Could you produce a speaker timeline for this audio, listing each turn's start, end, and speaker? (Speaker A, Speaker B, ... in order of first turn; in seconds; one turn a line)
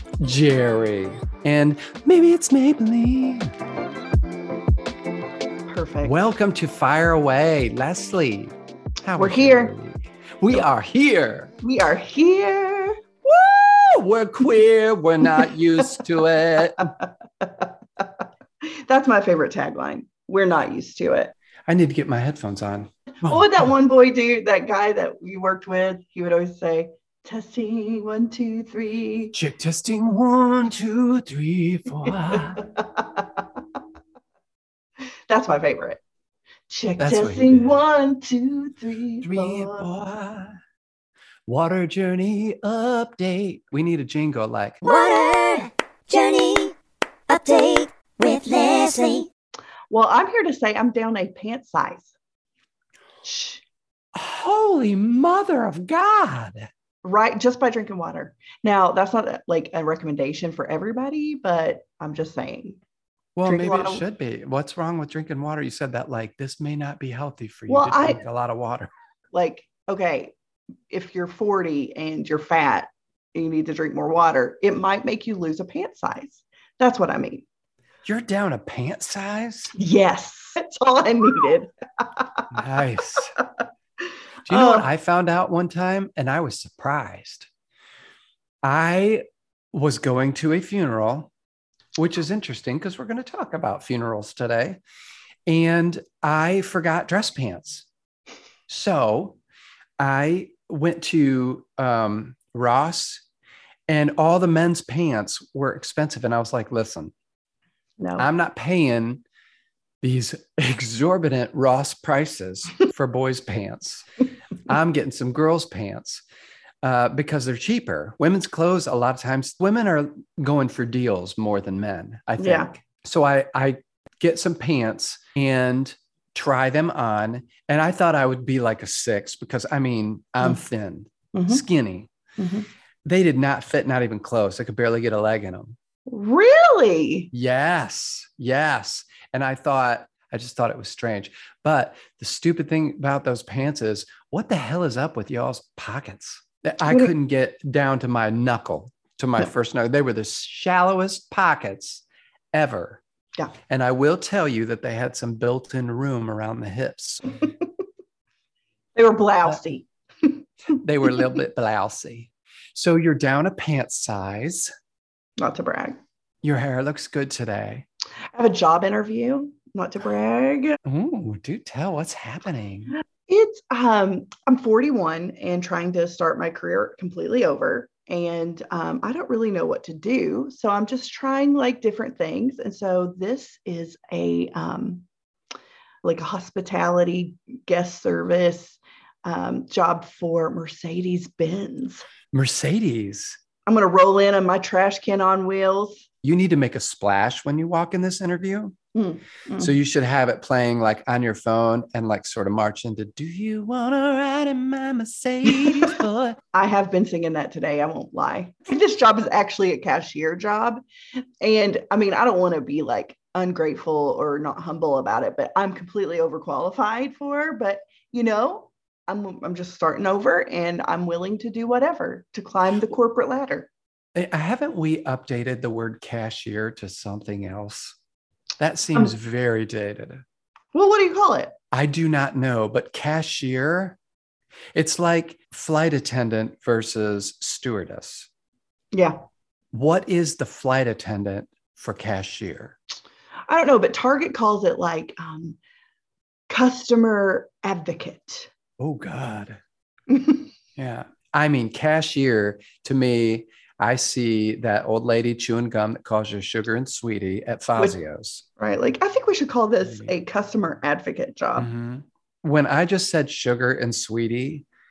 Speaker A: 0.2-3.5
Speaker B: 5.7-6.1
Speaker A: 6.0-11.5
Speaker B: 9.2-9.7
Speaker B: 11.6-13.0
Speaker A: 13.2-16.9
Speaker B: 17.4-21.3
Speaker A: 21.7-23.7
Speaker B: 23.2-29.3
Speaker A: 29.3-32.6
Speaker B: 32.3-33.4
Speaker B: 35.3-36.0
Speaker B: 36.7-39.9
Speaker A: 37.0-37.8
Speaker A: 39.2-40.6
Speaker A: 41.5-44.8
Speaker C: 44.8-46.7
Speaker C: 47.3-49.3
Speaker B: 49.9-52.1
Speaker B: 53.2-53.6
Speaker A: 54.1-56.7
Speaker B: 57.0-62.8
Speaker A: 63.4-68.9
Speaker B: 63.4-64.0
Speaker B: 67.7-68.2
Speaker B: 69.3-70.3
Speaker B: 70.9-77.4
Speaker A: 78.0-79.7
Speaker B: 79.7-82.5
Speaker A: 82.5-83.3
Speaker A: 84.5-87.5
Speaker B: 84.5-84.9
Speaker A: 88.6-91.3
Speaker A: 92.0-94.8
Speaker A: 95.5-97.9
Speaker A: 98.7-99.4
Speaker A: 100.0-103.2
Speaker A: 103.9-107.1
Speaker B: 108.0-108.3
Speaker A: 108.2-109.2
Speaker A: 110.0-114.1
Speaker A: 114.6-116.2
Speaker A: 116.8-132.1
Speaker B: 122.4-122.7
Speaker B: 131.3-131.6
Speaker B: 132.4-132.7
Speaker A: 133.0-135.8
Speaker B: 136.1-137.3
Speaker A: 137.3-153.0
Speaker B: 146.8-147.1
Speaker A: 153.7-157.4
Speaker B: 158.9-160.4
Speaker A: 160.7-164.7
Speaker B: 165.4-166.0
Speaker A: 166.4-167.8
Speaker B: 168.3-170.8
Speaker A: 170.8-172.9
Speaker B: 173.3-185.0
Speaker B: 186.0-192.1
Speaker A: 192.3-193.4
Speaker B: 193.7-196.0
Speaker A: 196.2-198.8
Speaker B: 198.9-199.7
Speaker A: 199.6-206.4
Speaker B: 206.5-210.8
Speaker B: 211.4-223.7
Speaker A: 224.1-228.0
Speaker A: 228.6-230.2
Speaker B: 230.7-231.5
Speaker A: 231.7-234.0
Speaker A: 234.7-238.3
Speaker B: 238.9-239.2
Speaker A: 239.7-242.8
Speaker B: 243.5-245.6
Speaker B: 246.5-248.5
Speaker A: 248.8-249.6
Speaker B: 250.1-250.5
Speaker A: 250.8-258.4
Speaker B: 258.6-261.7
Speaker A: 259.8-260.1
Speaker A: 261.6-264.6